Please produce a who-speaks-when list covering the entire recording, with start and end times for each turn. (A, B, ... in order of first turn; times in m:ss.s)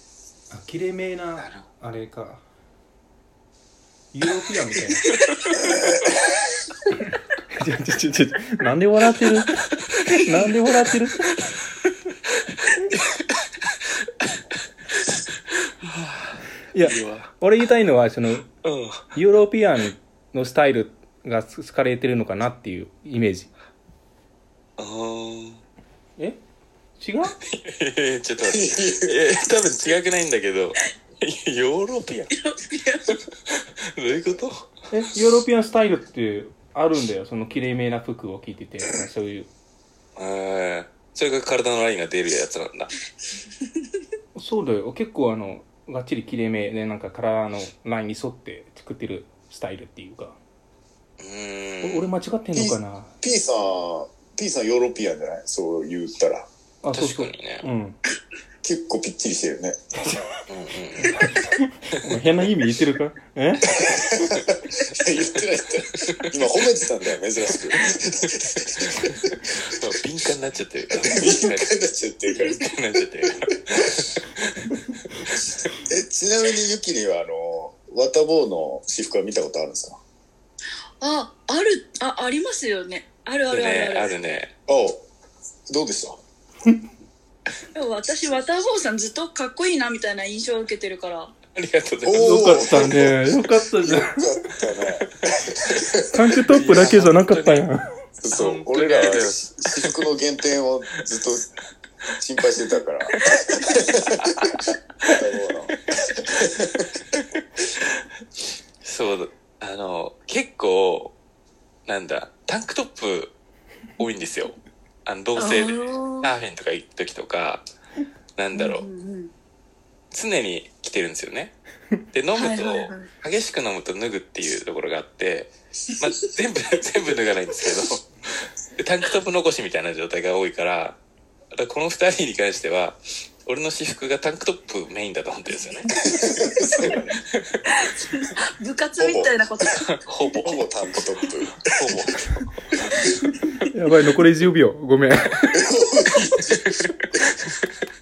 0:00.5-0:02.4 A
0:01.4-0:01.7 B
0:04.1-0:05.0 A
0:05.6-0:05.9 C
0:07.6-0:09.5 A
0:10.1-0:11.4 A
0:15.8-0:17.3 B
0:16.7-0:18.5 A
0:18.6-0:19.1 B
0:19.1-0:23.5 A
0:24.8-0:25.6 B
0:27.0-0:27.4 A
0:27.5-0:32.3 B
0:28.4-0:29.2 C
0:32.3-0:33.1 D
0:33.9-0:34.7 B
0:34.9-0:39.5 A
0:40.2-0:43.0 B
0:44.4-0:50.4 A
0:51.2-0:52.1 B
0:51.8-0:53.1 A
0:52.5-0:56.5 C
0:56.8-0:58.0 A
0:56.9-0:57.7 B
0:58.6-0:59.8 C
1:00.5-1:01.4 B
1:01.2-1:03.7 A
1:03.8-1:05.4 B
1:03.8-1:09.5 C
1:06.0-1:06.3 B
1:07.8-1:08.1 B
1:09.0-1:11.8 B
1:11.0-1:12.7 C
1:12.4-1:15.4 B
1:15.9-1:20.0 C
1:21.0-1:24.1 D
1:23.5-1:24.5 B
1:24.7-1:25.0 C
1:25.7-1:26.2 C
1:27.8-1:31.3 D
1:31.6-1:33.1 B
1:32.0-1:33.1 C
1:32.2-1:34.1 A
1:33.8-1:36.1 C
1:36.1-1:37.8 A
1:36.5-1:37.7 B
1:38.2-1:41.5 C
1:38.3-1:40.0 B
1:42.2-1:44.1 C
1:44.2-1:45.2 B
1:45.1-1:46.8 C
1:48.8-1:51.2 B
1:51.9-1:53.3 B
1:54.0-1:57.6 B
1:55.4-1:56.3 D
1:58.4-1:58.9 B
1:58.5-1:59.3 D
2:00.1-2:01.6 B
2:02.1-2:11.0 B
2:02.3-2:03.1 D
2:11.6-2:15.9 B
2:16.0-2:17.2 C
2:16.8-2:17.8 B
2:17.8-2:19.8 D
2:19.0-2:19.4 C
2:20.0-2:23.7 B
2:20.4-2:21.6 C
2:23.7-2:25.6 A
2:25.5-2:26.4 C
2:26.1-2:27.6 B